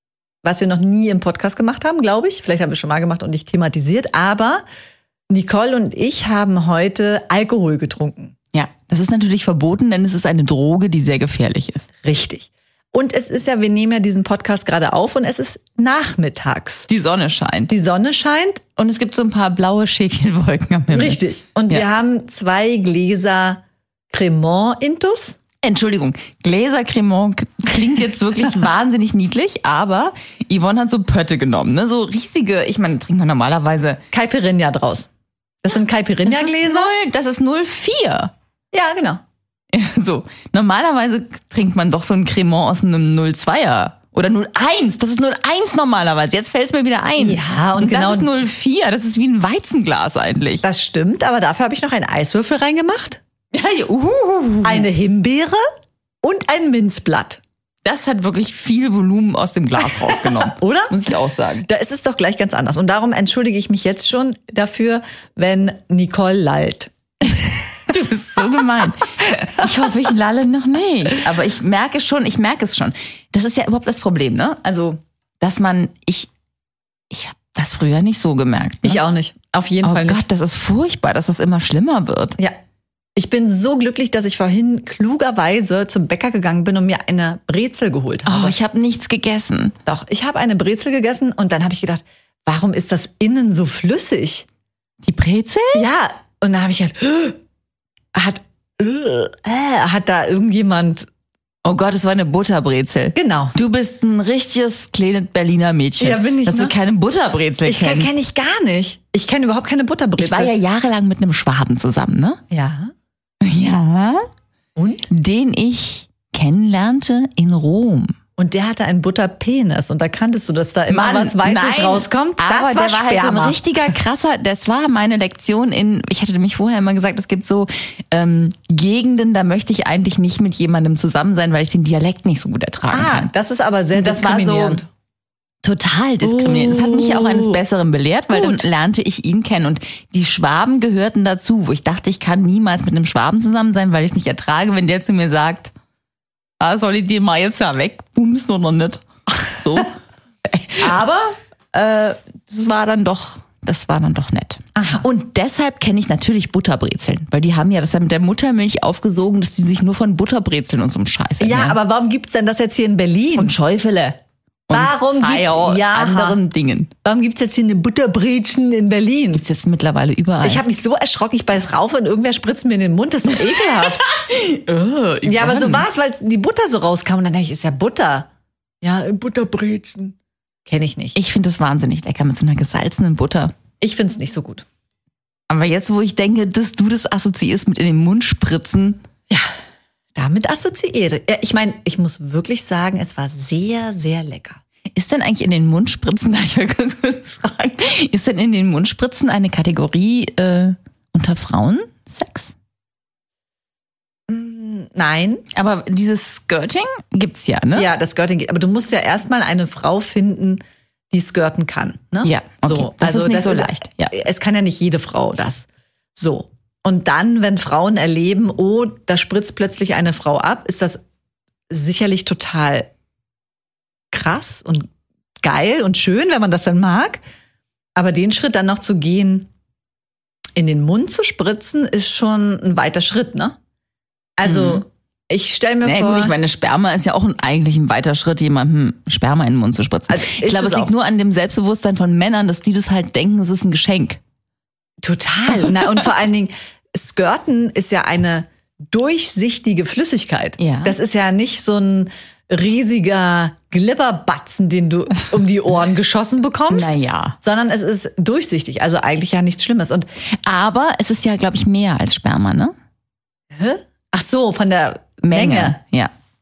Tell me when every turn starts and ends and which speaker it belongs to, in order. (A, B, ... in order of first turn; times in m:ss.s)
0:00.4-0:04.6 A
0:05.3-0:08.3 A
0:08.5-0:11.9 B
0:12.0-0:16.9 A
0:16.9-0:17.7 B
0:17.7-0:18.6 A
0:18.8-0:21.9 B
0:20.9-0:25.4 A
0:25.6-0:34.0 B
0:34.1-0:35.1 A
0:35.6-0:36.9 A
0:36.2-0:38.3 B
0:38.7-0:39.2 A
0:39.7-0:50.7 B
0:47.2-0:48.3 A
0:50.6-0:53.2 A
0:53.5-0:54.9 B
0:54.6-0:55.6 A
0:56.2-0:57.4 A
0:57.8-1:01.7 B
0:59.8-1:01.1 A
1:01.6-1:07.5 A
1:07.9-1:16.3 B
1:17.1-1:19.0 B
1:18.8-1:20.2 A
1:19.8-1:22.4 B
1:23.2-1:28.6 A
1:28.3-1:29.8 B
1:29.9-1:34.4 A
1:35.0-1:35.9 B
1:35.7-1:37.4 A
1:38.1-1:41.1 A
1:41.6-1:48.1 B
1:43.2-1:43.6 A
1:46.0-1:46.8 A
1:47.6-1:50.5 A
1:50.2-1:52.4 B
1:52.5-1:52.9 A
1:53.4-1:54.3 B
1:54.8-1:55.1 A
1:55.1-1:58.2 B
1:58.4-2:03.6 A
2:00.9-2:13.3 B
2:12.9-2:14.9 A
2:13.9-2:14.8 B
2:15.6-2:25.7 B
2:16.2-2:17.6 A
2:18.3-2:18.7 A
2:26.6-2:29.9 B
2:30.5-2:41.8 B
2:34.8-2:35.1 A
2:41.4-2:43.6 A
2:43.4-2:46.9 B
2:44.7-2:46.4 A
2:47.0-2:49.4 A
2:49.3-2:50.7 B
2:50.4-2:54.0 A
2:53.3-2:55.9 B
2:55.2-2:58.3 A
2:58.8-3:01.2 A
3:01.2-3:03.5 B
3:03.8-3:04.6 A
3:05.5-3:09.0 B
3:10.2-3:14.6 A
3:14.9-3:22.6 B
3:24.3-3:25.4 A
3:25.5-3:27.9 B
3:27.7-3:41.0 A
3:32.2-3:34.2 B
3:41.7-3:42.9 A
3:44.1-3:44.9 A
3:45.4-3:47.2 A
3:48.0-3:49.5 A
3:50.6-3:53.6 A
3:54.4-3:56.4 A
3:54.4-3:54.8 B
3:55.8-4:04.2 B
4:00.1-4:00.9 A
4:05.0-4:20.1 A
4:10.6-4:11.0 B
4:16.7-4:17.4 B
4:20.4-4:22.7 B
4:23.5-4:25.8 A
4:25.2-4:26.1 B